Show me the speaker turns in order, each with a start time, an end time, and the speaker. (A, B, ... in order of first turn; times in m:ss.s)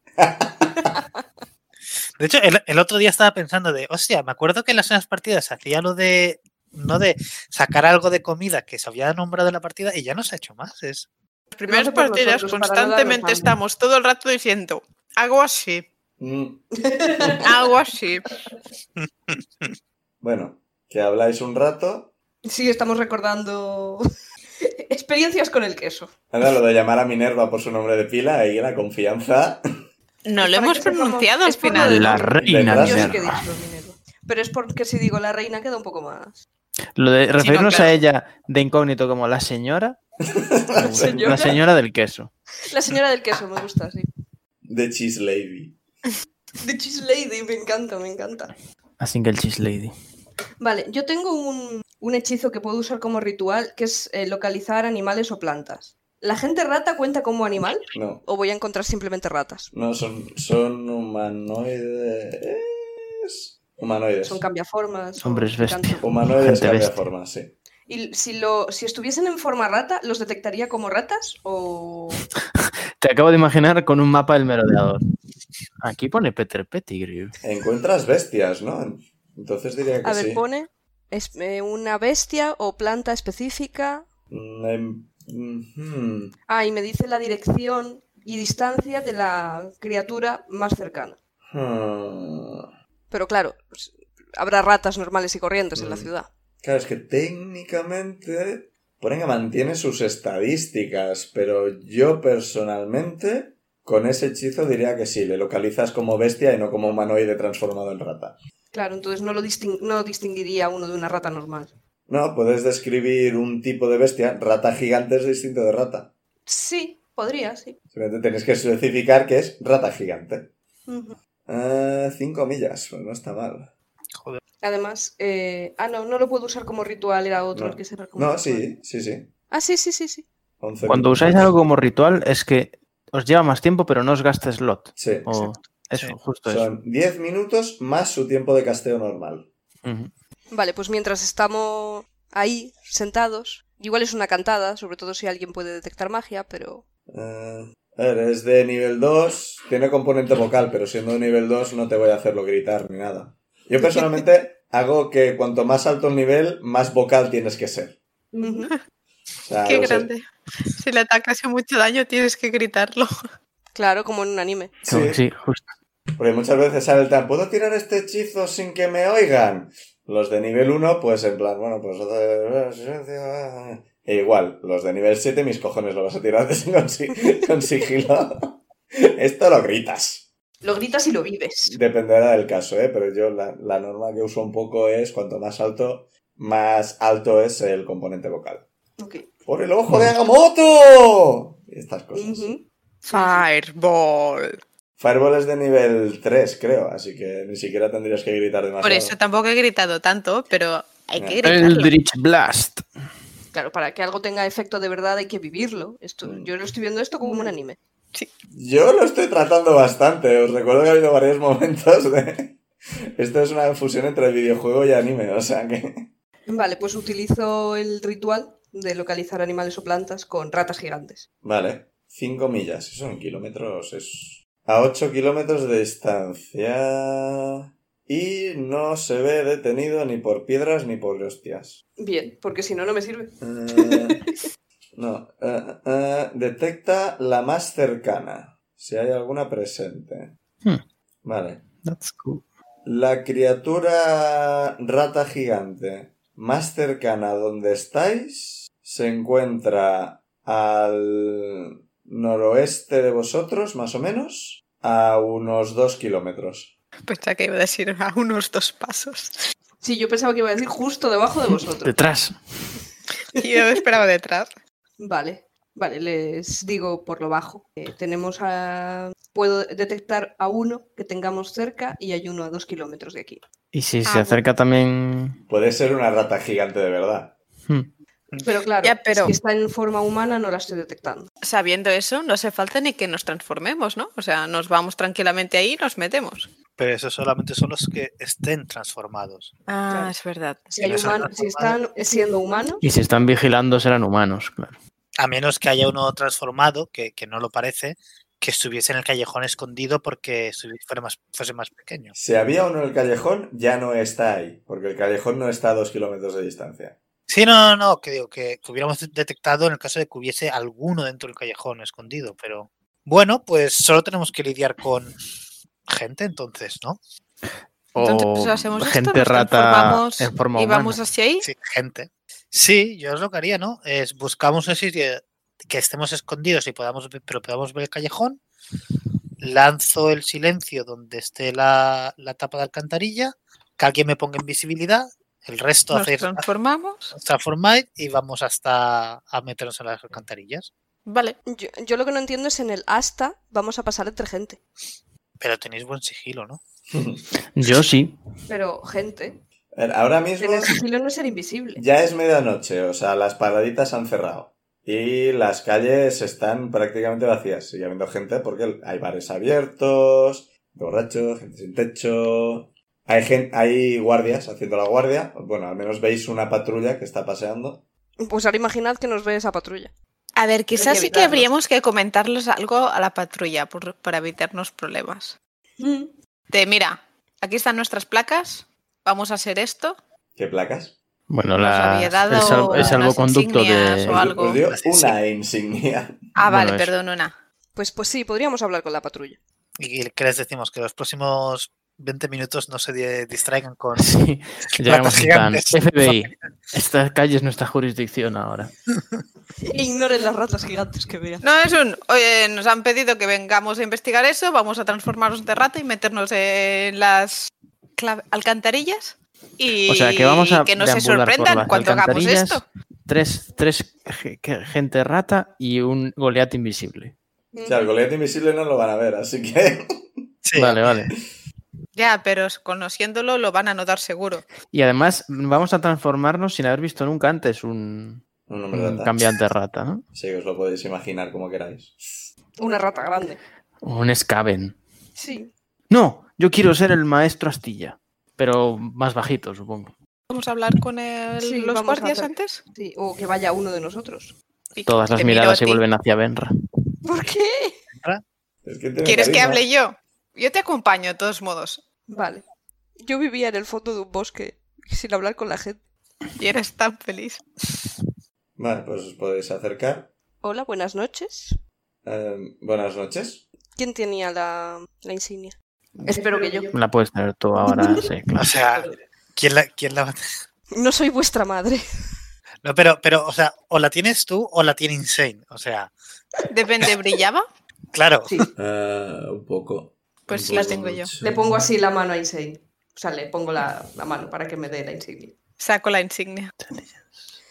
0:00.2-0:00.9 A
0:02.2-0:11.1 B
0:11.5-0:15.8 C
0:11.6-0:13.5 D
0:16.2-0:17.5 A
0:16.8-0:17.4 D
0:17.4-0:18.3 C
0:19.0-0:19.7 B
0:20.2-0:22.1 A
0:22.4-0:24.0 D
0:24.6-0:26.1 D
0:26.3-0:29.6 A
0:30.2-0:32.3 C
0:30.4-0:36.4 D
0:31.7-0:33.4 E
0:32.4-0:33.2 A
0:37.0-0:40.0 E
0:37.4-0:38.0 C
0:40.3-0:41.5 A
0:40.7-0:42.3 E
0:41.0-0:41.6 D
0:42.6-0:44.1 D
0:44.6-0:45.8 A
0:46.6-0:48.5 D
0:49.0-0:49.9 E
0:50.6-0:59.7 D
0:57.9-0:58.2 A
0:59.7-1:04.4 A
1:04.2-1:06.0 D
1:05.2-1:07.0 E
1:06.0-1:07.5 A
1:07.9-1:12.2 D
1:12.6-1:15.0 E
1:15.8-1:17.3 E
1:17.4-1:20.4 A
1:20.0-1:24.1 D
1:24.3-1:26.3 A
1:26.5-1:31.2 D
1:31.5-1:32.7 A
1:33.1-1:36.3 D
1:35.7-1:36.1 A
1:36.6-1:48.4 A
1:48.7-1:51.7 D
1:52.1-1:56.1 A
1:56.5-1:57.8 D
1:57.9-2:00.5 A
2:00.9-2:01.2 D
2:01.5-2:03.7 A
2:04.6-2:08.6 D
2:07.5-2:09.3 A
2:09.5-2:10.2 D
2:10.6-2:11.5 A
2:10.9-2:16.7 E
2:15.0-2:15.3 A
2:15.4-2:16.2 B
2:16.4-2:19.5 A
2:19.8-2:20.1 E
2:20.5-2:26.8 D
2:27.1-2:38.0 A
2:38.3-2:38.7 D
2:39.4-2:40.1 A
2:39.6-2:43.1 C
2:43.7-2:44.7 D
2:44.8-2:45.6 E
2:44.8-2:45.2 A
2:46.2-3:00.3 A
3:00.6-3:01.8 D
3:01.6-3:08.6 A
3:09.0-3:09.2 D
3:09.4-3:12.5 A
3:12.1-3:13.4 D
3:13.1-3:14.6 C
3:15.0-3:19.1 A
3:18.8-3:21.9 C
3:21.4-3:22.8 E
3:23.5-3:27.8 D
3:26.2-3:26.5 A
3:27.2-3:27.5 C
3:28.5-3:32.6 A
3:33.2-3:36.1 A
3:36.5-3:41.2 D
3:41.4-3:51.8 A
3:52.0-3:54.3 D
3:53.4-3:54.2 A
3:54.9-4:00.3 A
4:01.2-4:01.7 A
4:01.8-4:02.4 E
4:02.8-4:16.7 A
4:17.1-4:19.4 C
4:19.8-4:21.9 D
4:21.8-4:22.8 E
4:23.3-4:24.5 C
4:25.0-4:33.4 D
4:33.7-4:35.4 E
4:34.0-4:34.4 C
4:35.5-4:37.3 A
4:38.4-4:41.3 D
4:38.8-4:39.3 C
4:41.4-4:46.5 C
4:46.8-4:49.5 B
4:49.7-4:50.7 C
4:50.7-4:52.8 D
4:50.8-4:51.8 B
4:52.8-4:54.7 E
4:55.2-5:02.1 B
5:02.1-5:07.0 A
5:07.3-5:15.2 B
5:15.9-5:17.0 B
5:17.9-5:21.0 E
5:18.0-5:21.5 C
5:21.4-5:28.4 B
5:29.4-5:36.4 B
5:35.9-5:37.1 C
5:37.1-5:40.7 B
5:41.0-5:41.4 C
5:41.5-5:44.6 D
5:45.4-5:46.6 B
5:46.9-5:47.2 A
5:47.5-5:48.1 E
5:48.5-5:49.3 D
5:49.7-5:50.8 A
5:50.4-5:51.8 D
5:51.8-6:07.8 A
6:08.2-6:09.9 D
6:10.4-6:15.4 C
6:10.8-6:11.5 D
6:15.8-6:16.1 D
6:16.5-6:20.0 C
6:20.4-6:21.0 A
6:21.3-6:24.2 E
6:21.6-6:24.6 C
6:24.1-6:26.2 A
6:24.7-6:25.1 B
6:26.4-6:27.3 C
6:26.5-6:26.9 E
6:27.7-6:29.4 D
6:29.8-6:34.0 B
6:34.0-6:38.7 E
6:34.8-6:36.3 B
6:39.7-6:41.4 D
6:41.4-6:52.6 C
6:49.9-6:57.1 E
6:57.5-6:57.8 D
6:57.6-7:00.0 A
7:00.4-7:01.0 B
7:00.5-7:01.1 E
7:02.0-7:04.5 C
7:04.7-7:10.0 E
7:08.5-7:09.2 A
7:10.1-7:12.3 A
7:12.6-7:13.4 D
7:13.8-7:14.8 E
7:15.2-7:15.5 D
7:15.9-7:19.9 E
7:20.3-7:22.6 C
7:21.4-7:24.3 D
7:24.7-7:25.8 C
7:24.8-7:26.5 E
7:27.0-7:27.8 D
7:28.0-7:28.2 B
7:28.6-7:29.6 A
7:29.0-7:31.8 C
7:32.1-7:32.4 D
7:33.0-7:35.8 D
7:36.4-7:37.4 C
7:38.6-7:40.1 A
7:40.4-7:41.6 D
7:42.0-7:43.4 A
7:43.8-7:45.5 D
7:46.0-7:46.7 D
7:46.7-7:48.6 E
7:47.6-7:48.0 D
7:48.4-7:50.2 B
7:50.7-7:51.8 D
7:52.6-7:55.9 B
7:56.5-7:57.4 C
7:57.9-7:58.4 B
7:58.6-8:01.5 A
8:00.3-8:01.1 C
8:01.2-8:05.3 D
8:05.6-8:06.5 C
8:06.6-8:07.4 E